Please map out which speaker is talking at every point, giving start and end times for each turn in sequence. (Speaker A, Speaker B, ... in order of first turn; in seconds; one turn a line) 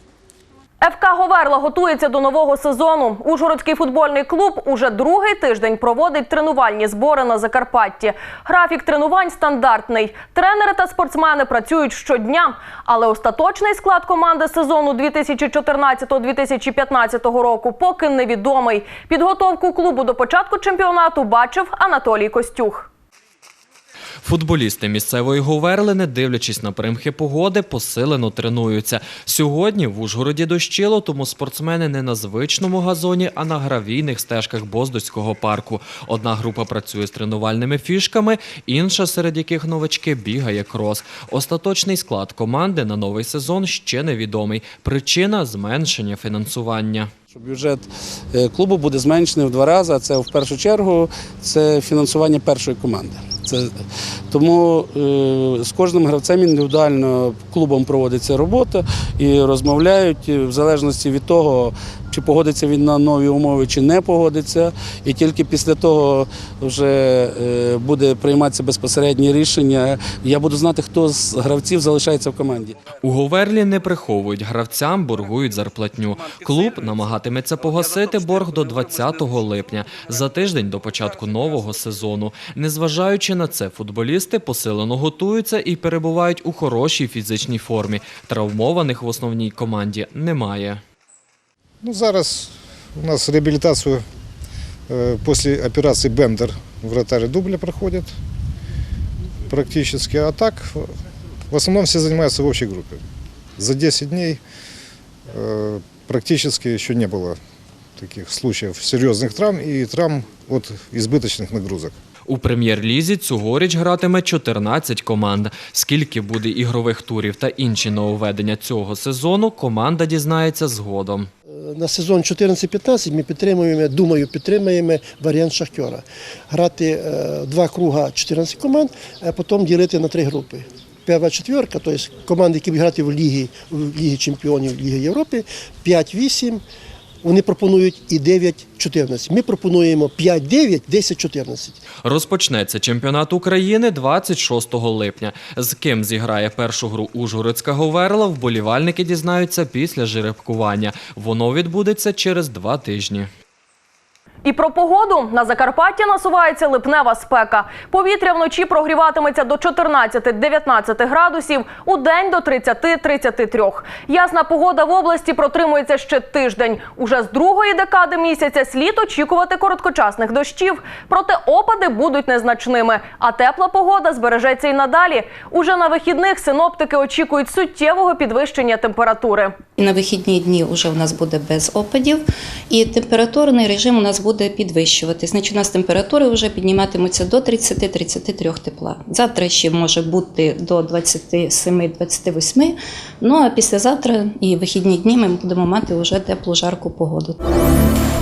Speaker A: 0.8-22.9
Speaker B: 24.2-47.1
Speaker C: 47.3-53.7
Speaker C: 54.3-72.8
Speaker B: 73.0-90.8
Speaker D: 91.8-94.0
Speaker D: 94.9-98.1
Speaker D: 99.5-100.9
Speaker D: 101.5-103.0
Speaker D: 103.6-104.4
Speaker D: 105.3-107.4
Speaker D: 108.0-112.0
Speaker B: 112.3-121.3
Speaker E: 121.8-136.6
Speaker E: 137.2-141.8
Speaker B: 142.0-153.3
Speaker A: 154.4-179.6
Speaker F: 179.8-197.3
Speaker E: 185.3-185.6